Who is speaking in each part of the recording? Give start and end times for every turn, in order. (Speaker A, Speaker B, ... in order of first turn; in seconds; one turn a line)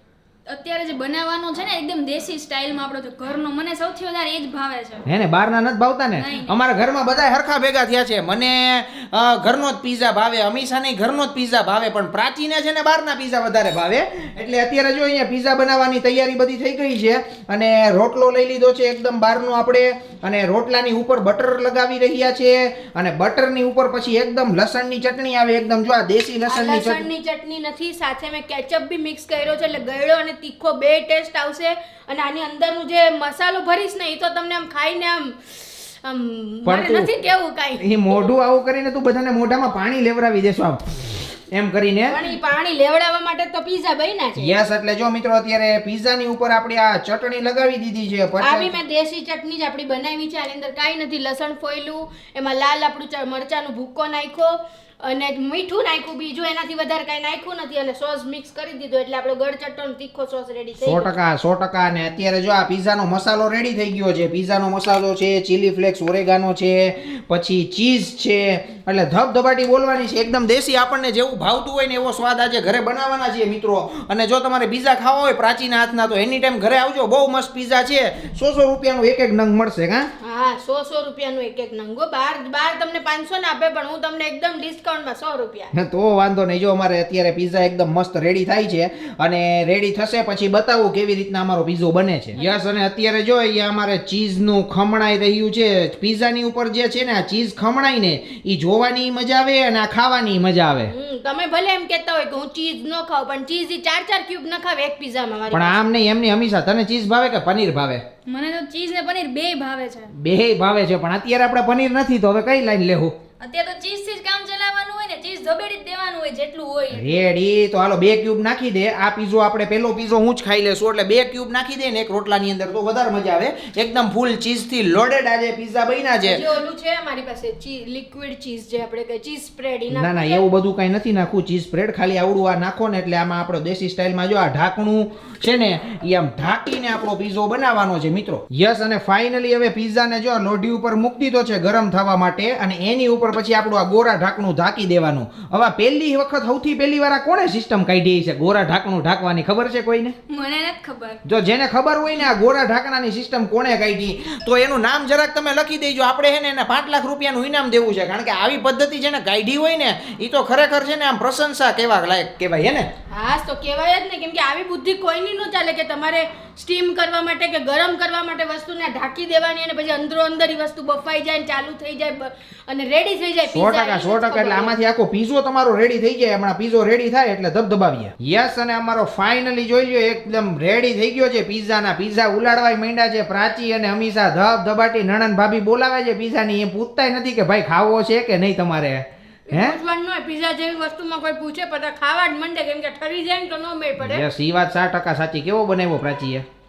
Speaker A: 0.5-5.0
Speaker B: 5.0-27.0
Speaker A: 6.2-6.5
Speaker C: 26.5-38.3
Speaker B: 36.6-37.1
Speaker B: 37.8-42.2
Speaker C: 42.1-44.6
Speaker B: 44.4-48.7
Speaker C: 48.4-61.1
Speaker B: 60.8-80.1
Speaker C: 80.2-85.7
Speaker B: 85.7-100.9
Speaker C: 92.4-92.6
Speaker C: 100.9-105.8
Speaker B: 105.5-108.0
Speaker A: 108.2-110.1
Speaker B: 110.1-113.1
Speaker A: 113.4-117.2
Speaker B: 116.9-126.4
Speaker C: 126.2-130.4
Speaker B: 129.9-150.2
Speaker A: 150.3-151.2
Speaker B: 151.2-162.9
Speaker C: 163.1-174.7
Speaker B: 173.5-189.8
Speaker C: 189.5-194.2
Speaker B: 194.0-196.4